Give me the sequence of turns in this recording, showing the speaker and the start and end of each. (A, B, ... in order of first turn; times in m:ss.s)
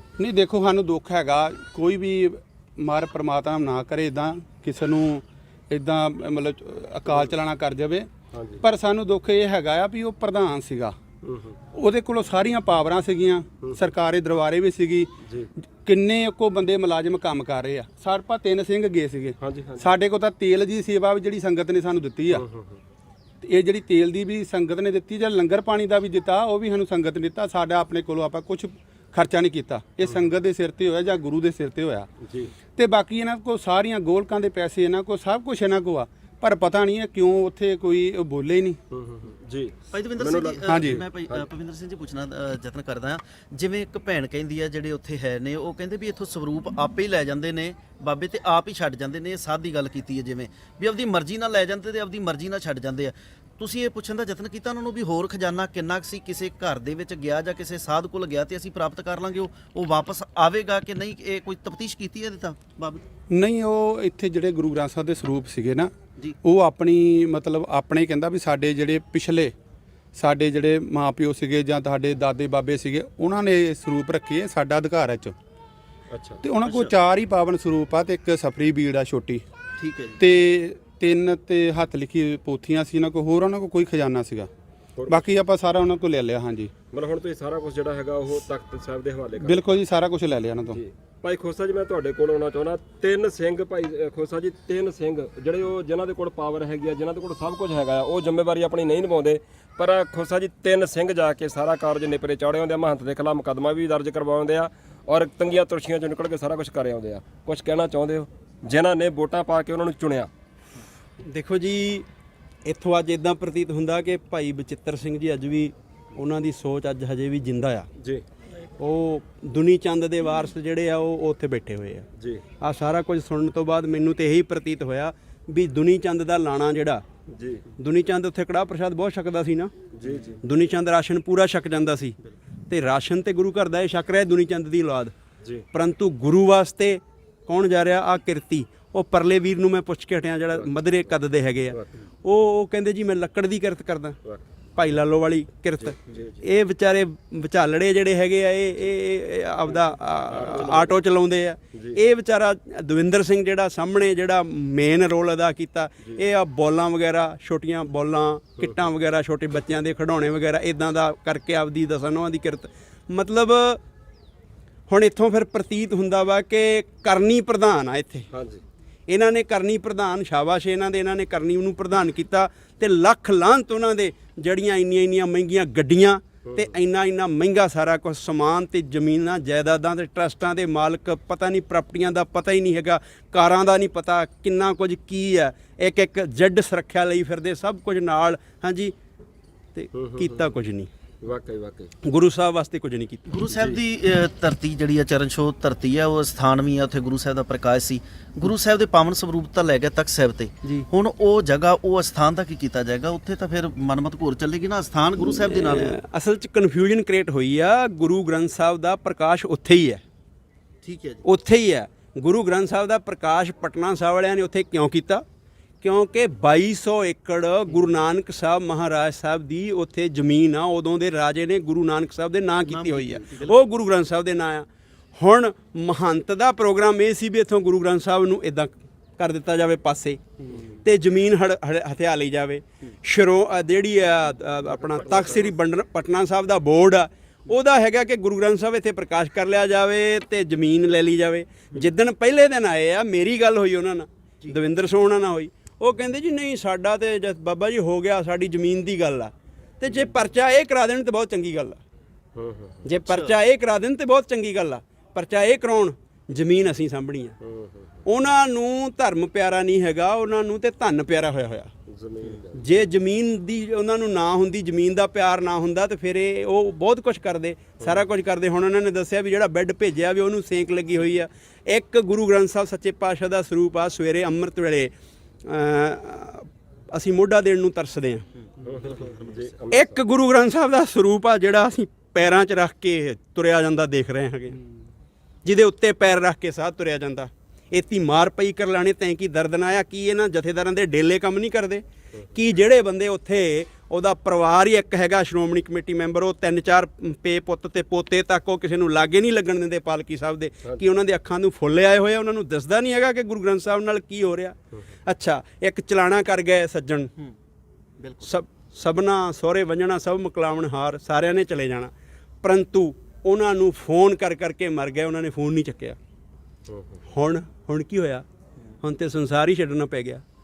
0:00.2-0:08.1 A
0:08.3-0:08.6 B
0:08.6-0:11.0 A
0:11.2-0:11.6 B
0:11.7-0:15.1 A
0:15.2-0:15.5 B
0:15.8-0:22.4 A
0:19.4-0:19.9 B
0:22.3-0:22.8 B
0:23.4-0:32.1 A
0:32.2-0:32.5 B
0:32.8-0:38.8 A
0:38.9-0:41.5 B
0:39.9-1:03.0 C
0:40.7-0:41.0 A
1:03.3-1:05.9 A
1:06.4-1:09.5 A
1:10.2-1:15.4 A
1:16.1-1:16.4 B
1:16.4-1:19.4 A
1:16.7-1:16.9 C
1:19.8-1:20.2 C
1:20.2-1:24.5 A
1:25.0-1:25.3 B
1:25.1-1:26.7 A
1:26.9-1:29.6 B
1:29.4-1:30.8 A
1:30.7-1:50.3 B
1:51.2-1:52.1 D
1:52.6-1:57.9 D
1:58.8-2:02.1 D
2:02.2-2:02.4 B
2:02.6-2:07.0 D
2:07.3-2:07.7 B
2:07.8-2:09.7 D
2:09.9-2:10.4 B
2:10.4-2:12.2 D
2:12.7-2:15.1 D
2:15.7-2:24.2 D
2:24.8-2:43.8 D
2:25.8-2:26.4 B
2:30.3-2:31.0 B
2:31.7-2:32.0 B
2:44.9-2:48.3 D
2:48.3-2:48.6 B
2:49.1-3:09.0 D
2:56.5-2:56.7 B
3:09.8-3:10.9 D
3:10.0-3:10.4 B
3:11.2-3:11.9 B
3:12.0-3:13.4 D
3:13.3-3:26.0 C
3:13.5-3:13.8 B
3:25.3-3:30.0 D
3:30.8-3:31.2 C
3:31.2-3:35.2 D
3:35.8-3:50.2 D
3:42.7-3:43.6 C
3:50.8-4:11.8 D
4:12.4-4:12.9 B
4:12.9-4:17.4 D
4:13.0-4:13.4 C
4:17.4-4:18.0 B
4:18.1-4:21.7 D
4:21.9-4:22.8 B
4:22.6-4:34.9 D
4:35.4-4:38.3 D
4:38.6-4:39.9 B
4:39.7-4:44.6 D
4:45.4-5:07.1 D
5:08.0-5:08.3 C
5:08.2-5:11.9 D
5:12.4-5:16.0 D
5:16.7-5:17.0 B
5:17.1-5:18.2 D
5:18.8-5:20.2 D